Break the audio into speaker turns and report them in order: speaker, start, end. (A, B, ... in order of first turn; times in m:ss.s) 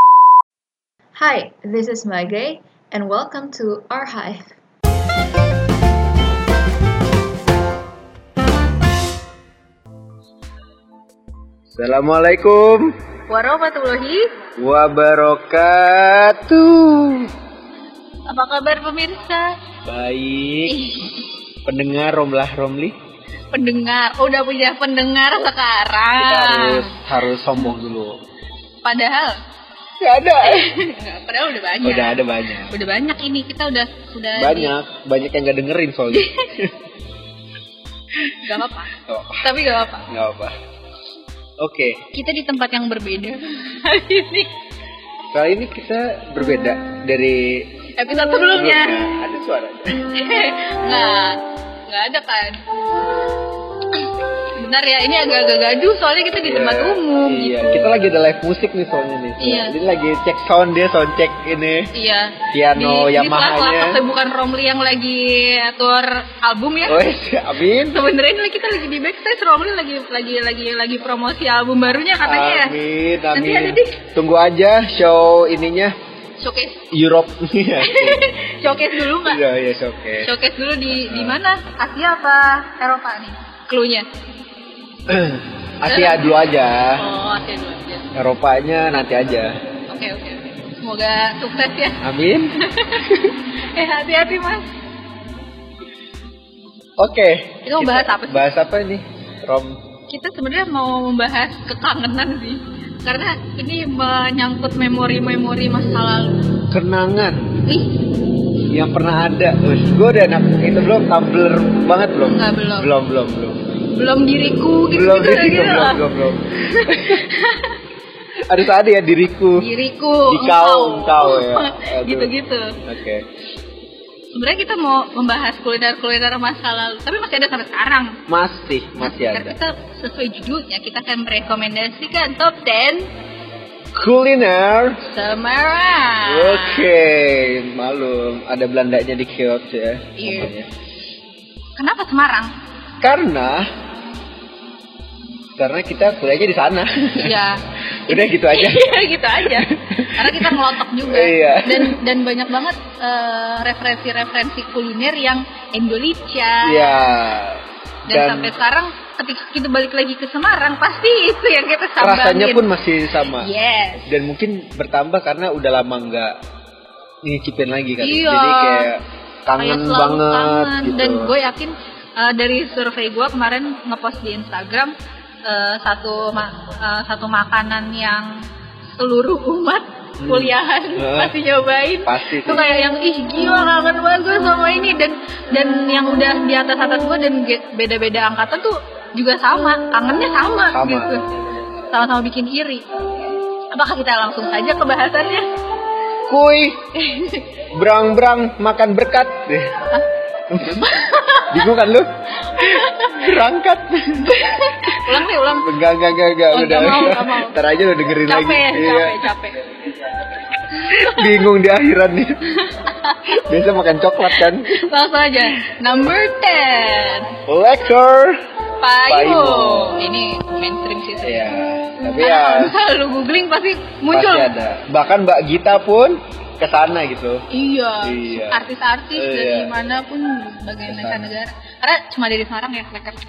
0:01.2-0:04.6 A
0:11.7-0:13.0 B
0:13.3-0:14.3 C
0:14.6-0:17.3 B
0:18.3-0:19.6 C
0:19.8-0:20.8 B
0:20.7-0:21.1 C
0:21.6-0:23.0 B
0:23.5-0:27.0 C
0:26.2-0:28.2 B
0:28.8-0:29.4 C
0:30.0-0:30.7 B
0:30.4-0:34.7 C
0:31.8-0:32.8 B
0:34.4-0:36.7 B
0:36.1-0:36.4 C
0:38.2-0:39.5 B
0:38.3-0:40.1 C
0:40.1-0:40.6 B
0:41.6-0:42.0 B
0:42.1-0:44.5 C
0:45.3-0:47.8 B
0:48.0-0:49.1 C
0:48.5-0:50.1 B
0:50.1-0:52.7 C
0:54.0-0:58.0 C
0:56.4-1:01.9 B
0:59.4-0:59.7 C
1:01.9-1:07.0 C
1:02.5-1:04.0 B
1:06.9-1:08.1 B
1:07.9-1:12.8 C
1:12.2-1:16.0 B
1:13.3-1:14.0 C
1:16.4-1:16.9 C
1:16.9-1:20.4 B
1:17.8-1:19.4 C
1:20.2-1:24.1 C
1:20.9-1:21.4 B
1:25.1-1:27.0 B
1:25.9-1:26.4 C
1:27.0-1:28.1 C
1:28.1-1:29.6 B
1:29.9-1:32.0 C
1:32.0-1:33.3 B
1:32.6-1:34.7 C
1:37.0-1:39.8 B
1:37.6-1:38.5 C
1:40.1-1:46.4 C
1:46.7-1:47.6 B
1:47.7-1:48.0 C
1:48.7-1:53.7 B
1:52.2-1:52.9 C
1:53.9-1:56.0 C
1:54.9-1:57.2 B
1:56.7-1:57.8 C
1:58.4-1:59.7 B
1:59.6-2:02.8 C
2:00.2-2:02.3 B
2:02.8-2:03.2 B
2:04.3-2:08.2 C
2:08.3-2:09.6 B
2:09.0-2:13.1 C
2:13.9-2:15.0 B
2:15.1-2:16.9 C
2:16.2-2:20.7 B
2:20.2-2:20.5 C
2:21.8-2:22.5 C
2:23.0-2:23.7 B
2:25.6-2:27.4 B
2:27.2-2:37.2 C
2:28.0-2:32.0 B
2:36.6-2:38.5 B
2:38.1-2:42.7 C
2:42.0-2:43.5 B
2:43.3-2:44.1 C
2:44.1-2:46.4 B
2:47.2-2:51.3 B
2:48.0-2:48.9 C
2:49.6-2:54.9 C
2:55.4-2:58.4 C
2:59.0-3:11.2 C
3:00.2-3:01.4 B
3:02.1-3:02.6 B
3:10.7-3:11.1 B
3:11.9-3:12.8 C
3:13.7-3:15.5 C
3:16.3-3:16.8 B
3:17.0-3:17.5 C
3:17.7-3:19.9 B
3:20.5-3:20.9 B
3:20.7-3:21.6 C
3:21.5-3:29.3 B
3:22.5-3:23.3 C
3:24.3-3:25.7 C
3:26.5-3:27.6 C
3:28.3-3:29.6 C
3:30.8-3:31.4 C
3:30.8-3:32.4 B
3:32.6-3:33.4 C
3:33.3-3:34.9 B
3:34.3-3:37.4 C
3:37.5-3:38.4 B
3:38.8-3:44.5 C
3:39.1-3:40.1 B
3:41.2-3:42.8 B
3:44.1-3:47.4 B
3:47.5-3:53.2 C
3:48.0-3:48.6 B
3:49.2-3:49.7 B
3:50.9-3:51.2 B